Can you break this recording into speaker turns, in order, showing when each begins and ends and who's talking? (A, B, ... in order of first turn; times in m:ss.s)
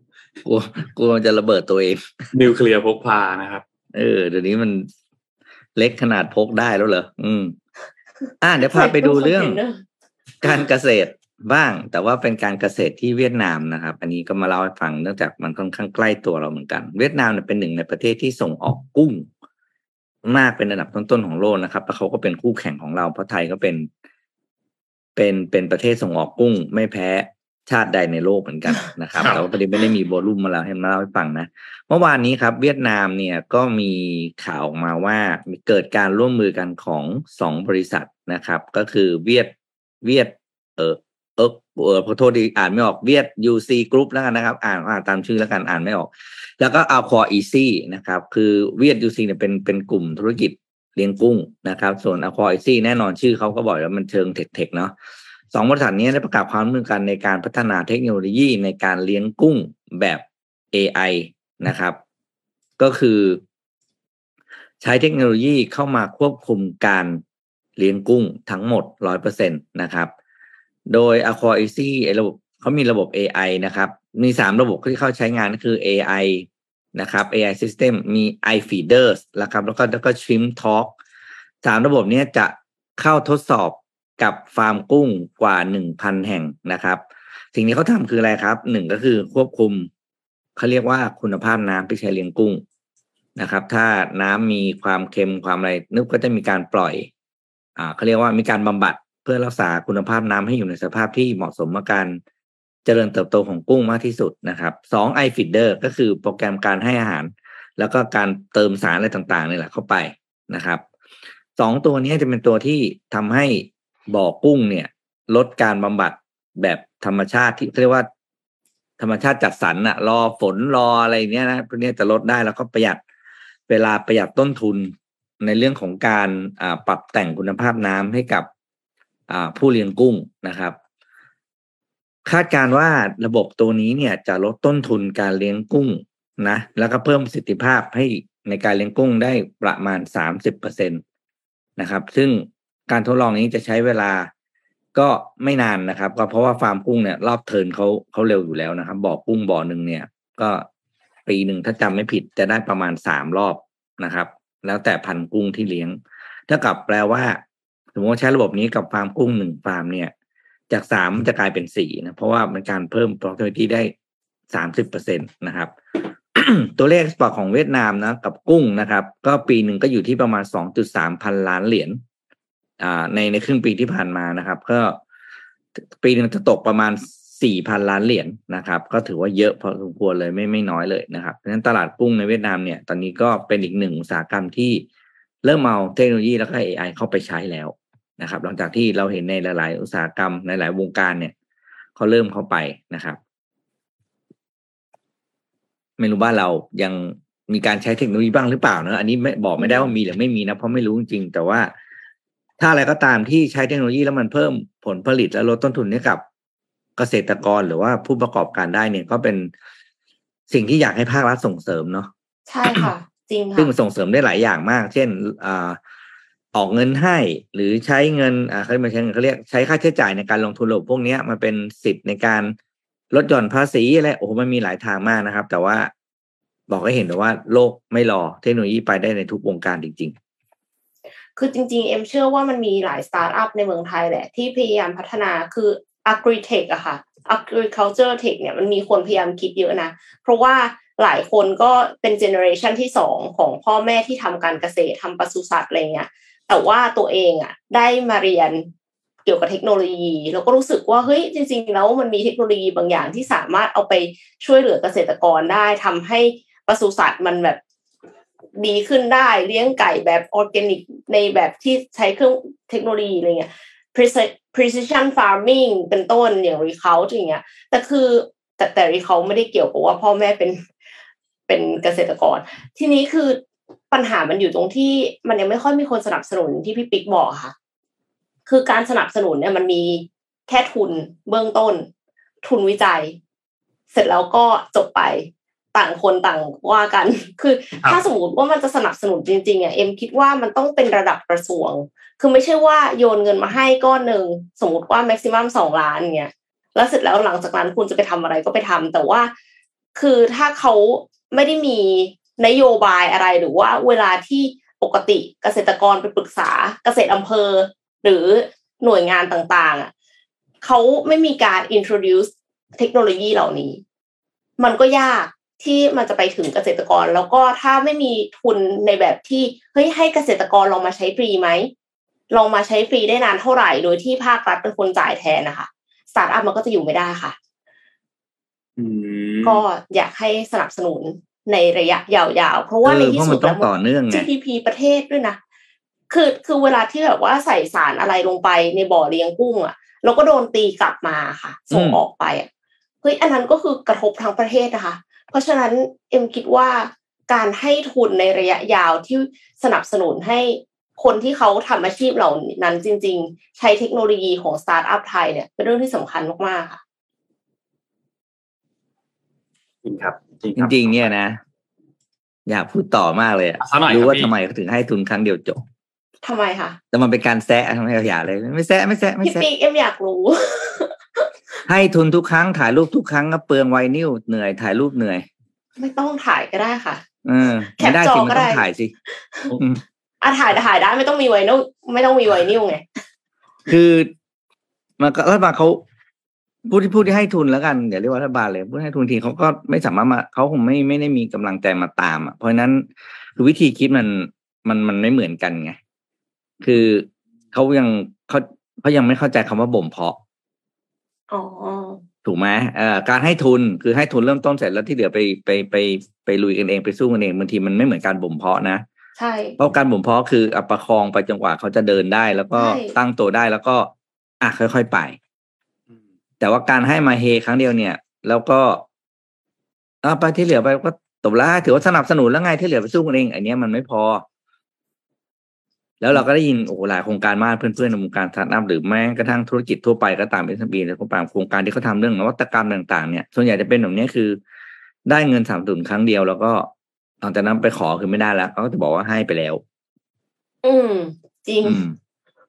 0:00.4-0:02.1 A
0:02.3-0:03.6 B
0:03.9-0:04.9 A
0:05.8-0:07.6 A
0:08.4-0:09.6 A
0:08.6-0:09.8 C
0:10.4-0:19.3 A
0:20.2-0:23.9 A
0:25.2-0:39.5 A
0:40.0-0:54.9 A
0:55.5-1:02.0 A
1:02.8-1:03.4 A
1:04.8-1:07.2 A
1:07.8-1:10.1 A
1:10.9-1:20.9 A
1:21.6-1:27.0 A
1:27.5-1:29.9 A
1:30.6-1:32.6 A
1:33.4-1:37.1 A
1:37.8-1:42.2 A
1:42.8-1:50.8 A
1:51.6-1:58.1 A
1:59.0-2:03.0 A
2:03.7-2:08.5 A
2:09.3-2:10.8 A
2:12.2-2:21.0 A
2:21.8-2:24.3 A
2:24.9-2:30.7 A
2:31.2-2:37.4 A
2:37.9-2:40.1 A
2:40.7-2:43.9 A
2:44.5-2:45.7 A
2:46.3-2:52.0 A
2:52.8-2:55.0 A
2:55.9-3:04.8 A
3:05.4-3:11.3 A
3:12.0-3:13.2 A
3:16.0-3:21.7 A
3:19.6-3:19.9 C
3:22.6-3:26.2 A
3:27.0-3:29.5 A
3:30.5-3:32.1 A
3:32.5-3:33.7 C
3:33.6-3:35.8 A
3:36.5-3:42.5 A
3:43.1-3:45.9 A
3:46.7-3:50.1 A
3:51.4-4:08.7 C
4:09.2-4:17.6 C
4:18.6-4:30.6 C
4:31.5-4:33.4 C
4:33.9-4:37.5 C
4:38.5-4:41.9 C
4:42.4-4:43.2 C
4:43.9-4:59.3 C
5:00.0-5:09.9 C
5:10.6-5:13.8 C
5:14.6-5:21.7 C
5:22.3-5:27.4 C
5:28.8-5:29.6 B
5:29.4-5:35.4 C
5:32.8-5:34.3 A
5:36.1-5:42.5 C
5:41.7-5:42.0 A
5:43.0-5:56.8 C
5:59.8-6:01.1 B
6:00.6-6:01.4 A
6:02.5-6:05.6 A
6:03.6-6:04.3 B
6:06.2-6:06.8 C
6:06.9-6:09.4 A
6:09.2-6:11.3 C
6:11.7-6:15.2 A
6:15.8-6:17.0 C
6:17.2-6:18.9 A
6:17.8-6:18.6 C
6:19.5-6:19.8 A
6:20.2-6:22.8 C
6:23.7-6:24.1 A
6:25.0-6:25.8 A
6:26.7-6:35.8 A
6:36.6-6:40.2 A
6:41.3-6:42.0 C
6:42.2-6:48.8 A
6:49.2-6:49.6 C
6:49.6-6:55.2 A
6:52.5-6:52.9 C
6:56.4-6:58.8 A
7:00.0-7:04.2 A
7:06.0-7:14.4 A
7:15.0-7:16.7 A
7:17.2-7:19.6 A
7:20.6-7:21.8 C
7:21.6-7:22.0 A